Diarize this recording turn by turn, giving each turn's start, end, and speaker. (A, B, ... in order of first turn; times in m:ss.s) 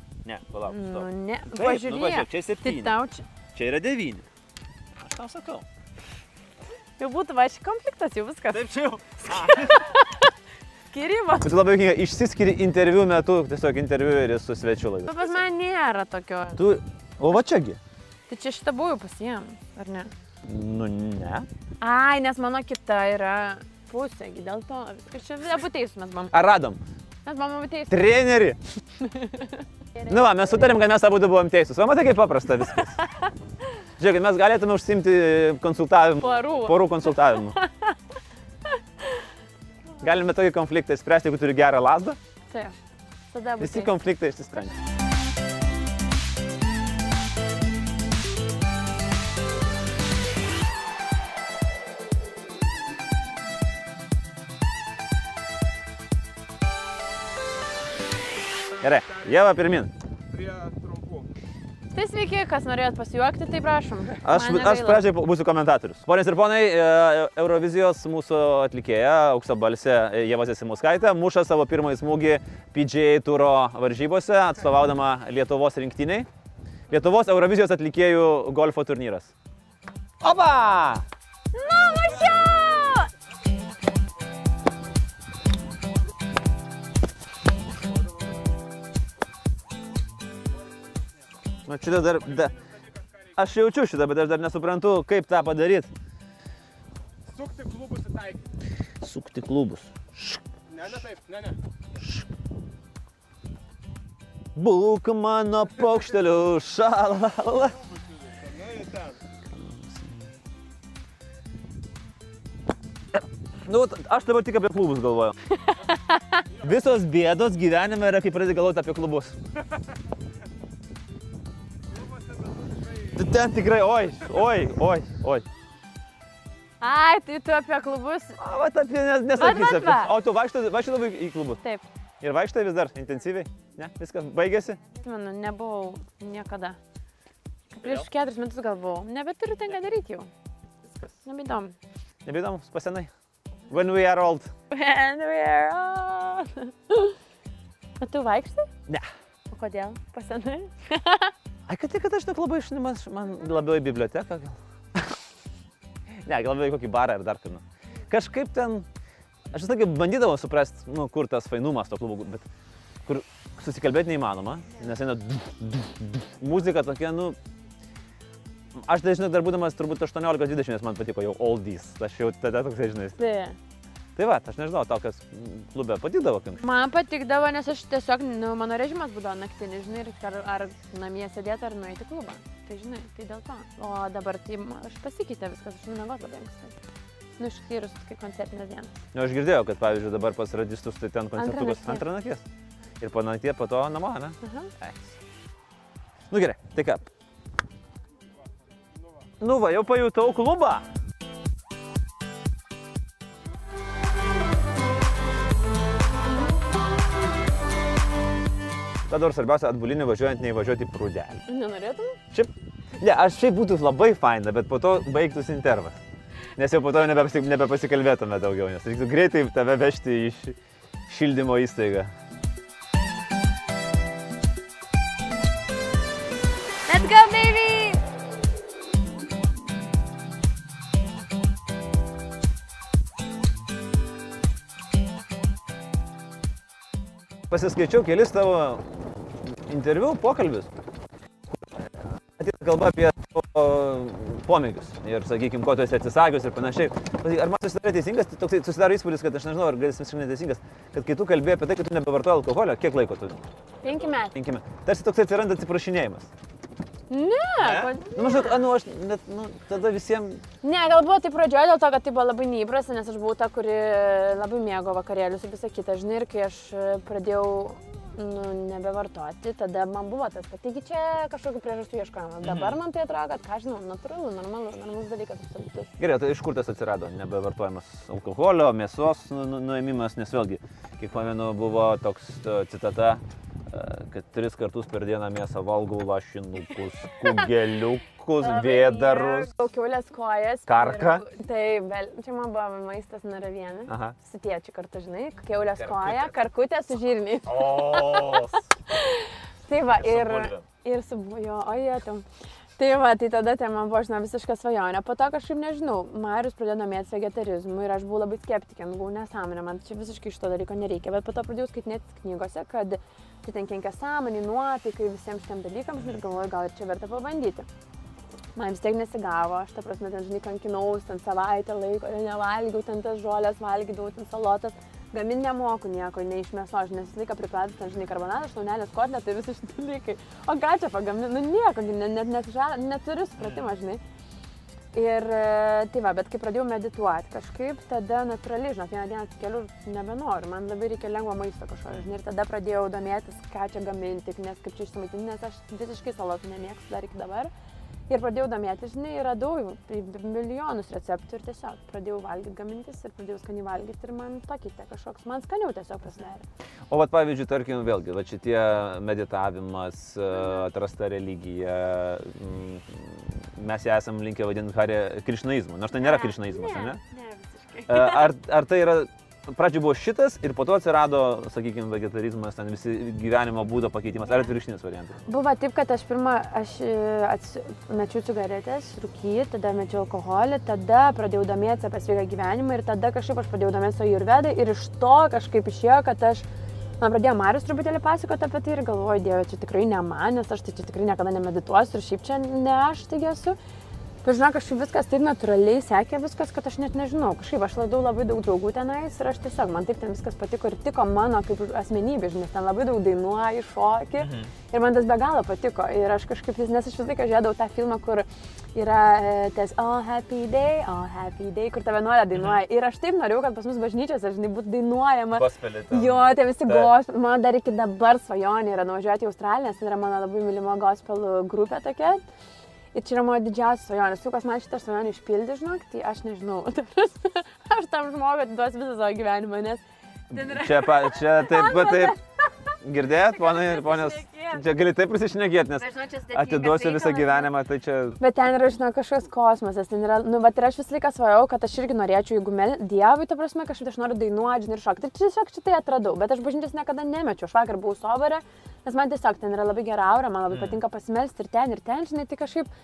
0:00.2-0:03.0 A
0:00.7-0:03.2 B
0:03.5-0:04.2 A
0:05.0-0:05.6 A
0:07.0-0:10.3 B
0:08.5-0:09.8 A
0:10.9-0:11.5 B
0:11.4-0:15.4 A
0:15.1-0:16.6 B
0:16.6-0:17.8 A
0:18.3-0:20.1 B
0:20.4-0:21.5 A
0:21.8-0:26.3 B
0:26.3-0:26.8 A
0:27.3-0:28.0 B
0:27.9-0:28.6 A
0:29.0-0:30.7 B
0:30.1-0:33.0 A
0:34.0-0:37.6 A
0:36.2-0:38.0 B
0:40.0-0:42.2 A
0:43.3-0:44.0 B
0:43.6-0:44.7 A
0:58.8-0:59.9 A
1:00.3-1:01.3 C
1:01.9-1:05.0 B
1:04.2-1:16.3 A
1:16.9-1:19.3 A
1:20.2-1:21.0 A
1:21.5-1:23.1 B
1:31.7-1:32.5 A
1:32.4-1:33.3 C
1:33.4-1:35.9 A
1:37.3-1:38.5 C
1:39.0-1:40.4 A
1:40.7-1:41.6 C
1:42.0-1:42.2 A
1:44.6-1:47.8 A
1:47.9-1:49.2 C
1:49.5-1:50.3 A
1:53.1-1:55.4 A
1:55.7-1:56.4 B
1:56.6-1:59.4 A
2:02.4-2:02.8 C
2:03.2-2:05.5 A
2:06.8-2:08.4 B
2:08.4-2:11.6 A
2:09.4-2:10.2 B
2:12.2-2:14.8 A
2:15.0-2:16.8 B
2:17.7-2:20.3 B
2:21.2-2:21.8 B
2:22.2-2:23.1 A
2:23.7-2:24.5 A
2:24.7-2:27.2 B
2:28.0-2:28.7 B
2:29.5-2:31.3 B
2:31.7-2:35.2 A
2:36.2-2:38.9 A
2:39.5-2:42.4 A
2:43.1-2:47.4 A
2:48.8-2:53.2 A
2:53.2-2:53.6 B
2:54.2-2:56.6 A
2:56.6-3:06.8 B
3:07.4-3:09.0 B
3:09.1-3:12.4 A
3:11.4-3:12.1 B
3:13.0-3:15.1 A
3:14.4-3:14.7 B
3:16.3-3:17.1 A
3:19.4-3:20.8 A
3:29.1-3:31.4 A
3:31.5-3:32.2 B
3:32.3-3:36.0 A
3:36.6-3:40.6 A
3:41.1-3:42.1 A
3:46.9-3:48.0 B
3:57.5-4:00.7 A
4:01.5-4:13.4 A
4:13.8-4:14.3 B
4:14.4-4:16.3 A
4:17.1-4:18.6 B
4:17.6-4:20.4 A
4:20.6-4:35.9 B
4:32.4-4:32.8 A
4:36.0-4:49.5 A
4:48.4-5:02.3 B
4:50.7-4:51.2 A
4:53.9-4:54.2 A
4:55.8-4:56.3 A
4:57.5-4:58.6 A
5:00.0-5:00.6 A
5:02.8-5:17.7 B
5:18.6-5:34.0 B
5:33.4-5:33.6 A
5:34.9-5:47.5 B
5:48.1-5:56.5 B
5:56.9-6:07.0 A
6:00.3-6:00.7 B
6:06.0-6:08.3 B
6:07.9-6:15.2 A
6:15.3-6:26.5 B
6:27.0-6:33.6 B
6:34.2-7:02.2 B
6:44.2-6:44.5 A
6:55.4-6:56.9 A
7:02.9-7:12.4 B
7:10.3-7:12.2 A
7:12.8-7:18.2 A
7:13.3-7:14.6 B
7:15.8-7:17.5 B
7:18.2-7:32.7 B
7:30.5-7:30.8 A